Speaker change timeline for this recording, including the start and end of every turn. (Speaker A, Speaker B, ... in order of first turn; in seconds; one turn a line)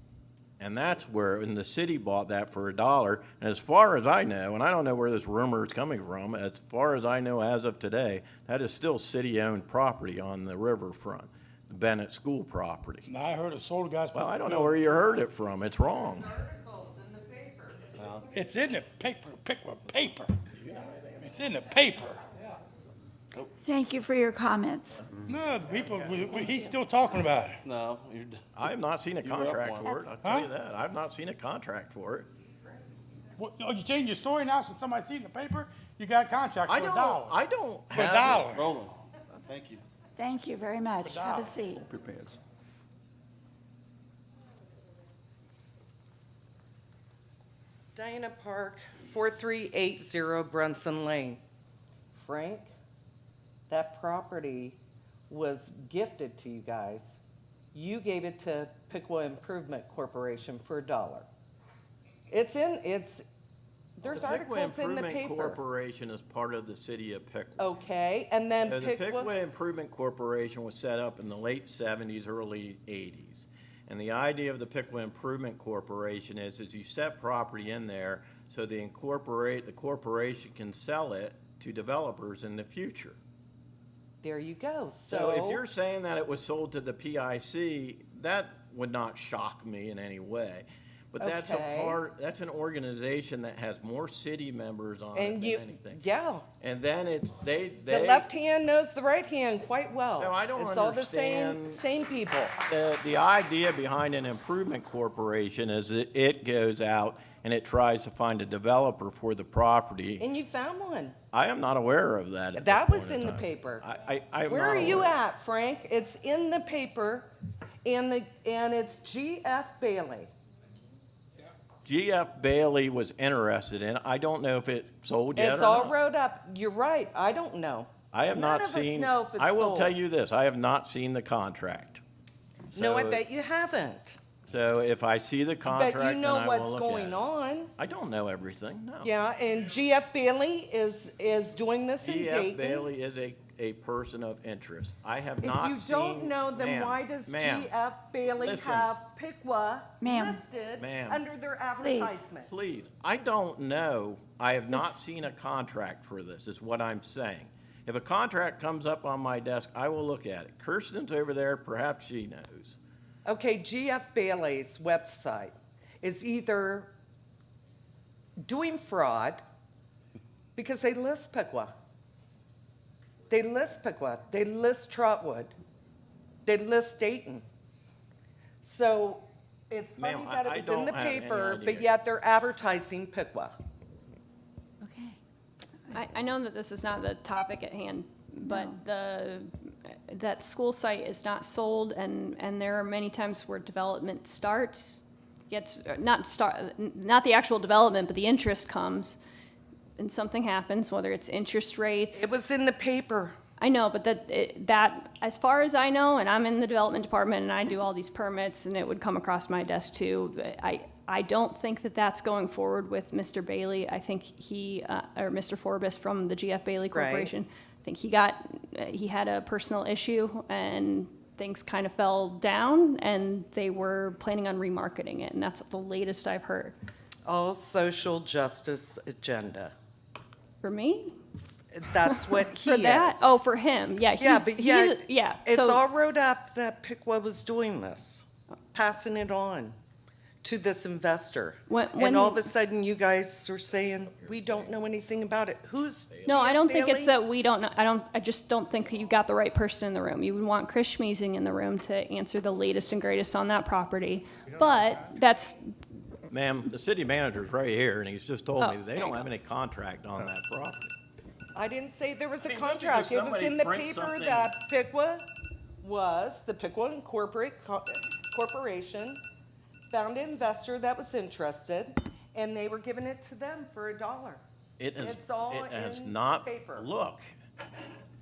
Speaker A: 0.6-13.1
Speaker B: 13.1-14.8
Speaker A: 14.1-16.3
Speaker C: 16.3-17.9
Speaker D: 18.0-18.3
Speaker B: 18.2-22.2
Speaker E: 23.6-25.1
Speaker B: 25.2-27.6
Speaker D: 27.6-28.4
Speaker A: 28.6-32.3
Speaker D: 29.2-30.0
Speaker B: 33.4-37.4
Speaker A: 36.7-38.6
Speaker B: 37.9-38.6
Speaker D: 38.4-39.8
Speaker E: 40.2-41.9
Speaker B: 41.0-41.5
Speaker D: 41.9-42.4
Speaker C: 48.0-51.4
Speaker C: 52.1-52.7
Speaker C: 53.7-54.8
Speaker C: 55.3-57.2
Speaker C: 57.7-61.3
Speaker C: 62.3-63.2
Speaker C: 64.0-65.6
Speaker A: 64.0-67.7
Speaker C: 67.6-69.3
Speaker A: 68.7-83.2
Speaker C: 84.2-85.6
Speaker A: 85.1-96.0
Speaker C: 91.2-92.0
Speaker C: 95.2-96.5
Speaker A: 96.6-98.3
Speaker C: 97.9-102.6
Speaker A: 100.2-101.8
Speaker A: 102.7-110.3
Speaker C: 110.2-111.2
Speaker A: 111.3-115.2
Speaker C: 112.6-113.8
Speaker C: 114.5-117.3
Speaker C: 117.8-120.3
Speaker A: 121.8-126.0
Speaker C: 125.4-130.0
Speaker A: 128.1-132.0
Speaker A: 132.7-133.2
Speaker C: 132.8-134.2
Speaker A: 134.5-137.3
Speaker C: 135.7-137.7
Speaker A: 137.8-139.1
Speaker C: 139.0-142.9
Speaker A: 142.0-147.7
Speaker C: 145.4-152.5
Speaker A: 148.4-148.9
Speaker E: 150.0-150.4
Speaker A: 150.8-151.2
Speaker E: 151.8-152.2
Speaker A: 152.5-162.8
Speaker C: 163.2-166.9
Speaker C: 168.4-169.4
Speaker C: 170.6-171.7
Speaker C: 173.3-175.5
Speaker C: 176.5-177.5
Speaker C: 178.6-183.6
Speaker A: 180.0-181.9
Speaker E: 184.8-185.2
Speaker F: 185.9-199.2
Speaker E: 188.4-188.8
Speaker F: 200.0-202.3
Speaker C: 202.1-203.4
Speaker F: 203.6-226.8
Speaker C: 216.9-217.3
Speaker C: 227.2-229.7
Speaker F: 230.6-231.2
Speaker C: 231.7-233.4
Speaker F: 232.1-235.8
Speaker C: 234.2-239.8
Speaker C: 240.4-247.2
Speaker F: 241.7-242.5
Speaker A: 244.1-244.9
Speaker A: 246.1-246.5
Speaker F: 246.3-255.7
Speaker A: 256.3-260.9
Speaker F: 258.6-259.3
Speaker C: 261.6-265.3
Speaker A: 262.5-264.5
Speaker C: 265.8-269.2
Speaker C: 269.9-274.4
Speaker A: 274.8-277.3
Speaker C: 275.0-276.9